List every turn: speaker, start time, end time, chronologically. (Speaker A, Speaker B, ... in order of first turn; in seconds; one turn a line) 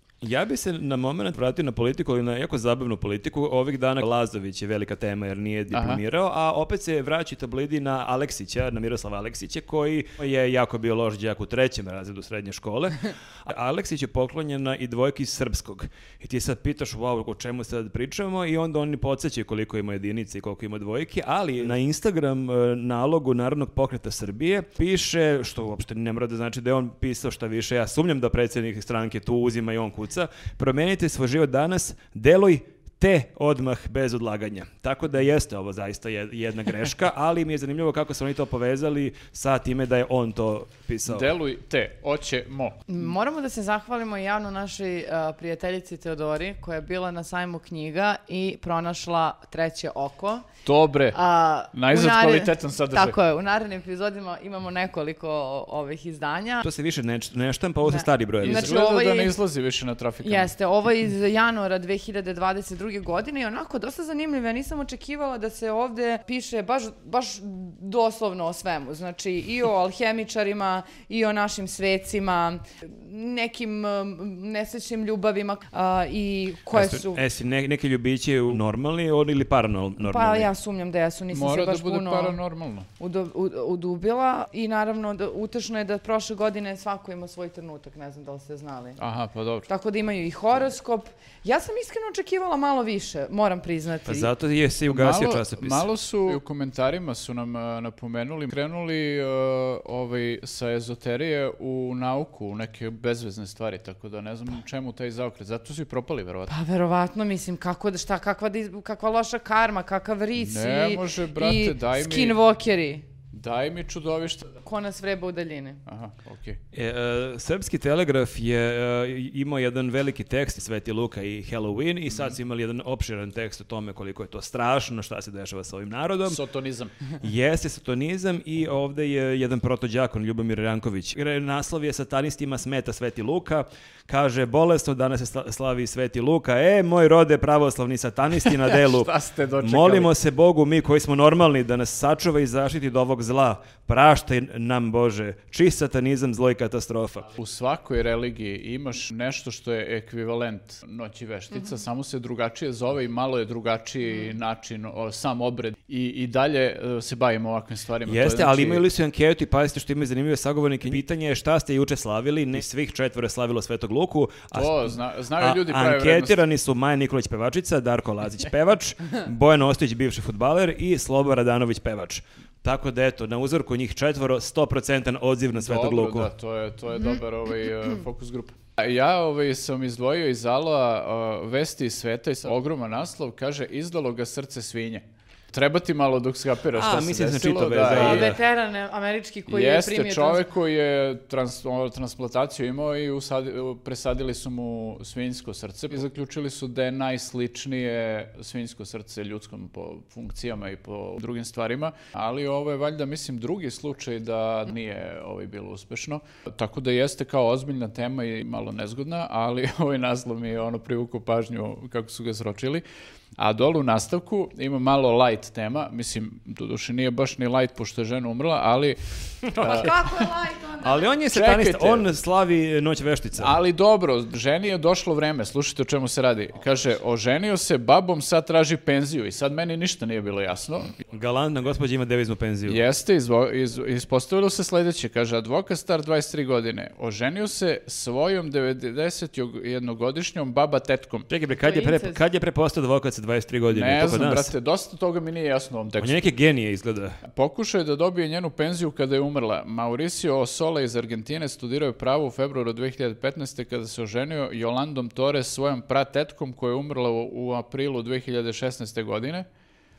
Speaker A: 0.2-41.3
Speaker B: 5.7-6.0
Speaker B: 41.0-42.8
Speaker C: 42.9-50.5
Speaker B: 50.6-51.2
Speaker C: 51.1-56.6
Speaker B: 51.7-53.2
Speaker A: 56.6-58.8
Speaker C: 57.8-59.3
Speaker B: 58.4-60.5
Speaker C: 60.2-77.2
Speaker A: 76.7-80.5
Speaker C: 80.0-82.4
Speaker B: 81.3-82.9
Speaker C: 83.0-89.0
Speaker B: 89.0-89.7
Speaker C: 89.7-94.3
Speaker A: 94.0-95.9
Speaker B: 94.9-106.5
Speaker C: 106.5-113.0
Speaker B: 110.4-112.3
Speaker B: 113.3-114.6
Speaker C: 114.6-115.8
Speaker B: 115.9-116.6
Speaker A: 116.7-126.4
Speaker B: 126.3-126.9
Speaker A: 127.2-147.3
Speaker B: 138.4-140.1
Speaker B: 147.4-158.8
Speaker A: 158.1-176.3
Speaker B: 164.5-166.4
Speaker B: 175.5-188.3
Speaker A: 186.7-188.4
Speaker C: 187.9-190.4
Speaker B: 189.5-212.8
Speaker B: 213.4-220.3
Speaker C: 219.6-221.1
Speaker A: 220.8-223.6
Speaker B: 221.3-222.1
Speaker B: 223.4-230.9
Speaker A: 231.0-232.8
Speaker B: 232.7-241.3
Speaker A: 241.3-244.5
Speaker C: 241.6-242.2
Speaker B: 243.7-246.2
Speaker A: 246.0-247.2
Speaker B: 247.2-259.4